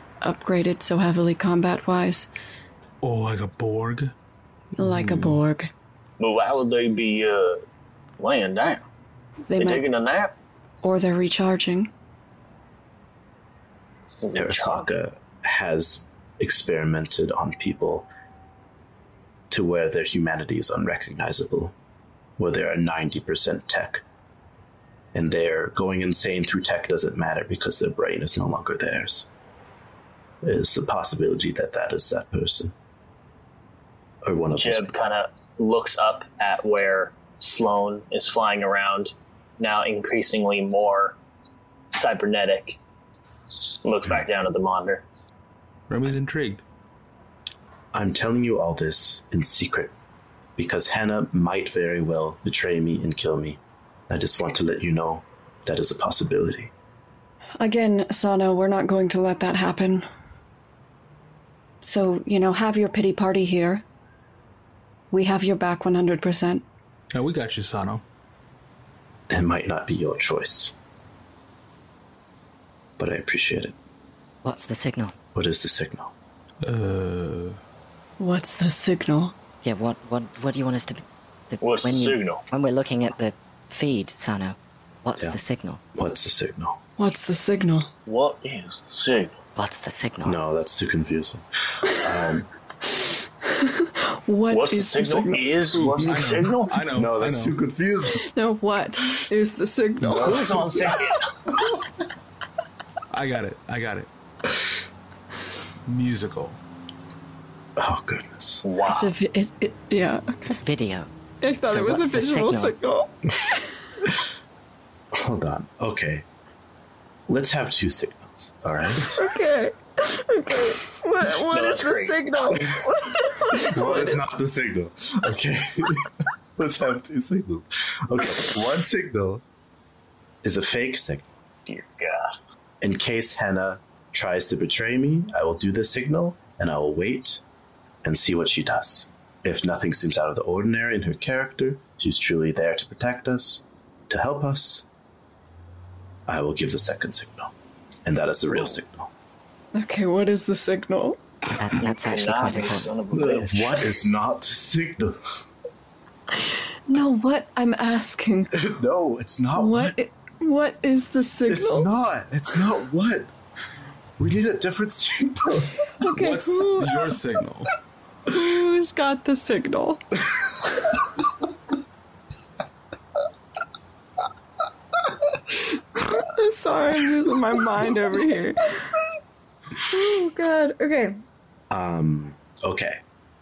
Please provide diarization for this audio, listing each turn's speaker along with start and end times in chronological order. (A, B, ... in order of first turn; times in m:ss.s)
0:00.2-0:02.3 A
0:03.0-0:04.1 B
0:04.8-0:05.7 A
0:04.8-0:05.4 B
0:06.2-0:07.6 C
0:08.2-0:08.8 C
0:09.5-0:09.8 A
0:09.6-0:10.3 C
0:10.8-0:11.9 A
0:14.2-0:14.9 C
0:14.3-0:18.1 D
0:19.5-0:21.7 D
0:22.4-0:24.0 D
0:25.1-0:29.3 D
0:30.4-0:32.7 D
0:34.2-0:35.0 D
0:34.6-0:41.2 C
0:41.9-0:42.8 C
0:43.8-0:45.0 C
0:45.9-0:46.6 B
0:47.9-0:49.9 D
0:50.6-0:53.6 D
0:54.1-0:56.7 D
0:57.6-1:00.1 A
1:01.8-1:03.8 A
1:05.1-1:06.6 A
1:07.1-1:08.0 B
1:09.3-1:10.7 D
1:13.0-1:13.8 D
1:14.4-1:15.1 E
1:15.3-1:16.1 D
1:16.6-1:17.6 B
1:18.2-1:19.3 A
1:19.6-1:25.8 E
1:21.6-1:22.4 C
1:26.0-1:26.8 D
1:27.0-1:27.9 A
1:28.1-1:29.3 C
1:29.6-1:30.4 E
1:30.2-1:32.5 D
1:33.5-1:35.6 A
1:34.5-1:36.8 C
1:35.8-1:37.6 B
1:36.9-1:38.2 D
1:38.1-1:40.7 A
1:40.1-1:41.3 C
1:43.1-1:44.1 B
1:45.9-1:46.6 B
1:47.8-1:48.6 D
1:48.6-1:49.1 C
1:48.9-1:50.6 A
1:50.5-1:51.1 E
1:51.4-1:53.5 A
1:51.6-1:52.8 E
1:55.1-1:56.2 D
1:57.3-1:59.2 D
1:59.1-2:04.2 A
2:01.5-2:02.6 C
2:03.6-2:09.4 D
2:03.8-2:04.2 C
2:10.4-2:11.3 D
2:11.7-2:12.4 C
2:12.8-2:17.4 D
2:18.0-2:24.9 D
2:26.3-2:27.5 D
2:28.0-2:29.1 D
2:29.7-2:31.2 A
2:31.6-2:32.9 E
2:32.0-2:33.8 C
2:33.1-2:35.2 D
2:36.9-2:38.5 A
2:38.5-2:40.0 D
2:39.6-2:41.9 A
2:41.5-2:43.3 D
2:44.2-2:45.9 D
2:46.0-2:47.0 A
2:46.1-2:47.7 B
2:48.3-2:50.0 A
2:56.1-2:58.7 A
2:59.8-3:01.2 A
3:01.7-3:03.0 D